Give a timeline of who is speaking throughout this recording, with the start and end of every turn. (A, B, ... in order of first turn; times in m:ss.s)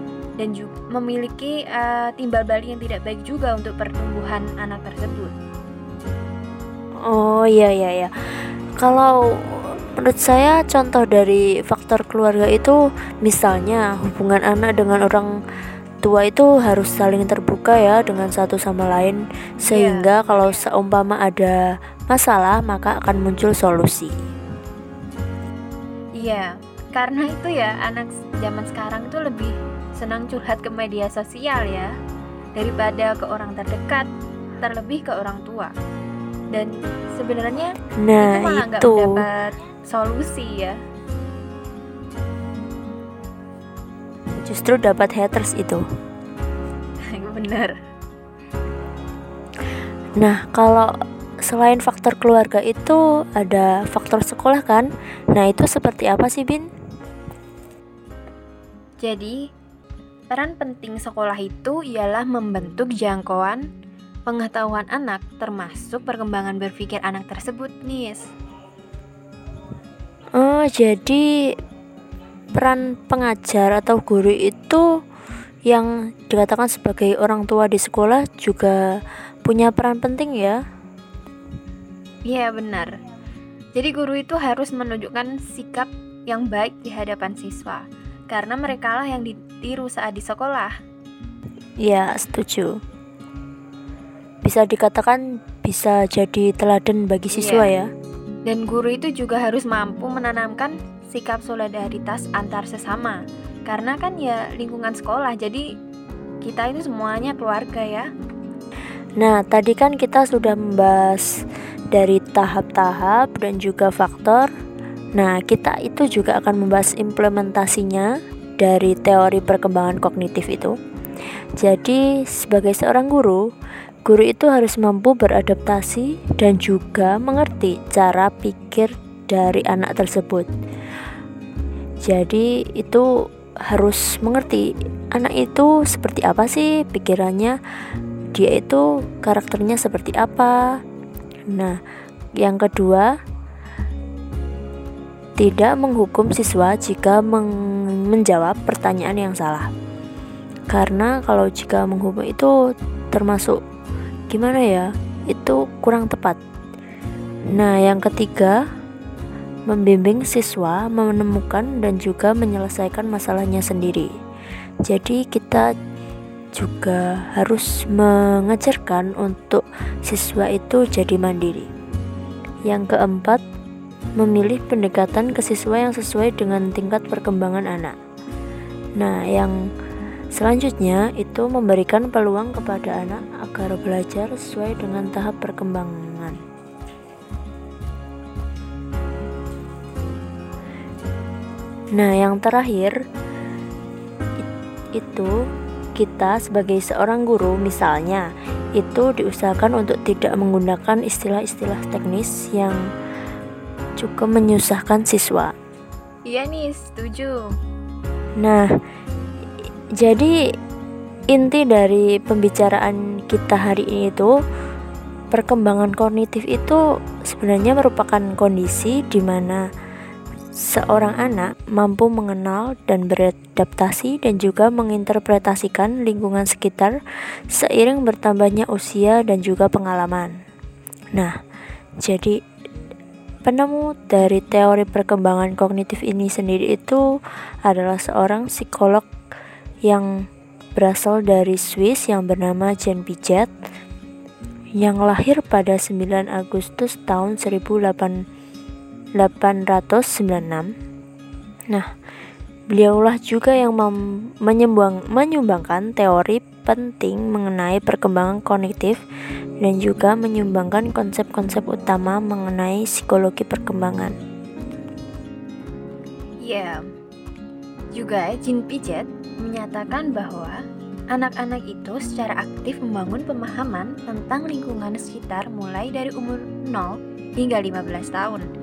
0:00.4-0:05.3 A
0:07.0-0:08.1 B
0:08.8-0:15.3 B
0:16.0-0:24.1 B
0:19.6-0:20.6 A
0:26.2-0:31.9 A
0:32.6-0:34.1 A
0:34.6-0:35.7 A
0:36.5-0:40.8 A
0:38.0-0:39.1 B
0:44.4-0:45.8 B
0:47.1-0:47.7 A
0:50.2-0:50.9 B
0:51.4-0:56.6 B
0:59.0-0:59.4 A
1:00.3-1:03.6 A
1:04.3-1:08.3 A
1:10.4-1:11.2 B
1:12.6-1:14.8 B
1:15.7-1:18.8 B
1:19.4-1:20.6 B
1:22.3-1:22.9 A
1:23.7-1:30.7 A
1:31.8-1:32.8 B
1:34.4-1:37.9 B
1:37.3-1:37.7 A
1:38.5-1:45.6 A
1:46.4-1:48.0 A
1:49.2-1:51.3 B
1:51.9-1:54.5 B
1:55.2-1:58.1 B
1:58.6-2:00.7 B
2:01.6-2:03.4 B
2:04.0-2:10.5 B
2:12.0-2:13.0 B
2:13.7-2:17.6 B
2:18.3-2:20.5 B
2:21.5-2:21.8 B
2:22.4-2:23.1 B
2:25.4-2:29.7 B
2:30.7-2:32.5 B
2:33.1-2:33.6 B
2:34.3-2:36.4 B
2:37.5-2:38.6 B
2:39.7-2:44.1 B
2:44.8-2:45.6 B
2:46.6-2:51.7 B
2:52.7-2:53.4 B
2:54.2-2:57.9 B
2:59.0-2:59.5 B
3:00.3-3:06.4 B
3:11.9-3:12.9 B
3:14.9-3:15.3 B
3:16.0-3:22.8 B
3:24.0-3:25.5 B
3:26.3-3:27.4 A
3:30.0-3:30.3 B
3:31.3-3:34.3 B
3:35.3-3:39.6 B
3:40.7-3:47.0 B
3:47.5-3:50.3 B
3:52.0-3:52.4 B
3:53.4-3:57.0 B
3:57.6-3:59.0 B
4:00.8-4:03.5 B
4:04.8-4:08.2 B
4:09.2-4:10.7 B
4:12.7-4:19.0 B
4:19.6-4:24.1 B
4:26.4-4:26.8 A
4:28.0-4:30.6 A
4:31.1-4:38.5 A